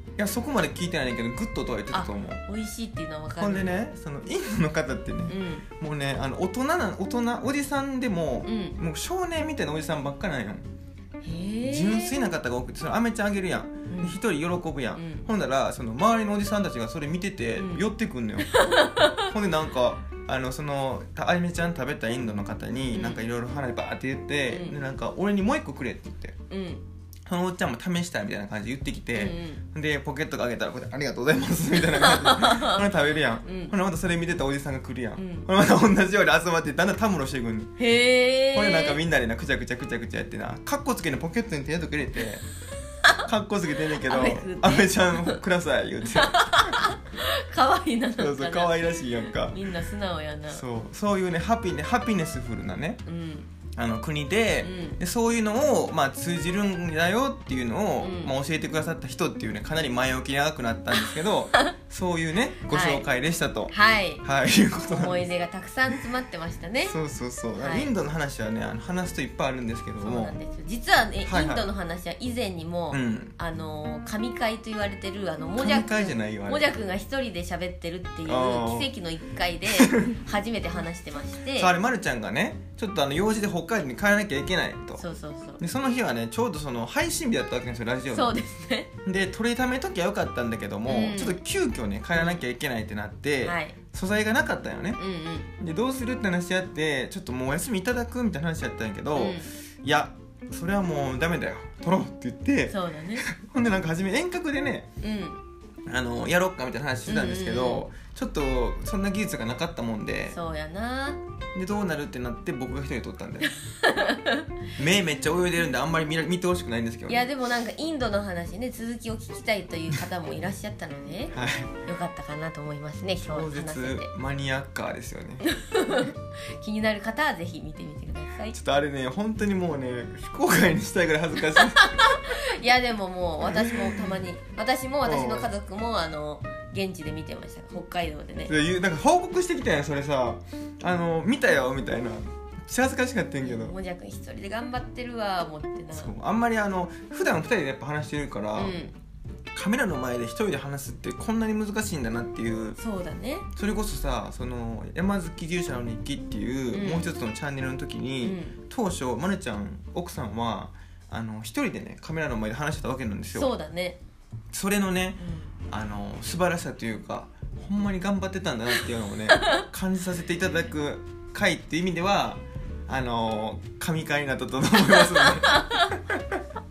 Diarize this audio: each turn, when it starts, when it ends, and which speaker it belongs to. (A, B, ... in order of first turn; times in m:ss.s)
0:00.2-0:02.4 A
0:01.9-0:03.8 B
0:03.3-0:10.6 A
0:05.3-0:05.7 B
0:08.4-0:08.8 B
0:11.2-0:12.2 B
0:11.6-0:18.5 A
0:13.9-0:14.2 B
0:14.9-0:15.3 B
0:17.6-0:17.9 B
0:18.4-0:19.3 B
0:19.2-0:26.4 A
0:22.9-0:23.2 B
0:24.5-0:24.8 B
0:26.5-0:26.8 B
0:27.3-0:37.7 A
0:29.2-0:29.6 B
0:31.8-0:32.9 B
0:33.4-0:33.7 B
0:35.2-0:35.5 B
0:37.8-0:39.0 B
0:38.5-0:42.4 A
0:43.2-0:46.9 A
0:43.9-0:45.4 B
0:46.1-0:50.6 B
0:48.2-0:49.6 A
0:50.5-0:53.0 A
0:53.1-0:53.5 B
0:53.8-1:05.3 A
0:54.6-0:55.0 B
0:58.0-0:58.3 B
1:02.7-1:03.0 B
1:03.7-1:04.2 B
1:04.8-1:07.0 B
1:06.8-1:10.4 A
1:07.6-1:07.9 B
1:10.0-1:21.7 B
1:11.2-1:11.7 A
1:12.9-1:13.3 A
1:15.6-1:16.7 A
1:18.2-1:18.9 A
1:19.6-1:20.1 A
1:21.5-1:25.0 A
1:25.0-1:25.6 B
1:25.6-1:28.4 A
1:28.1-1:28.9 B
1:29.0-1:35.0 A
1:30.9-1:31.4 B
1:32.2-1:32.4 B
1:33.4-1:33.8 B
1:35.0-1:35.5 B
1:35.6-1:44.9 A
1:39.2-1:39.5 B
1:42.7-1:43.2 B
1:45.0-1:45.4 B
1:45.9-1:50.4 A
1:47.0-1:47.8 B
1:50.3-1:51.2 B
1:51.5-1:53.6 A
1:53.6-1:54.5 B
1:54.8-1:57.3 A
1:57.1-2:04.1 B
2:01.3-2:01.8 A
2:03.2-2:05.5 A
2:05.4-2:08.6 B
2:08.5-2:12.0 A
2:11.5-2:18.5 B
2:13.4-2:14.0 A
2:15.0-2:15.5 A
2:18.4-2:23.8 A
2:23.4-2:26.1 B
2:25.9-2:28.8 A
2:28.5-2:28.9 B
2:29.5-2:32.8 A
2:32.8-2:33.5 B
2:33.6-2:43.5 A
2:36.7-2:37.1 B
2:38.2-2:38.5 B
2:43.4-2:44.0 B
2:44.5-2:56.4 A
2:45.2-2:45.5 B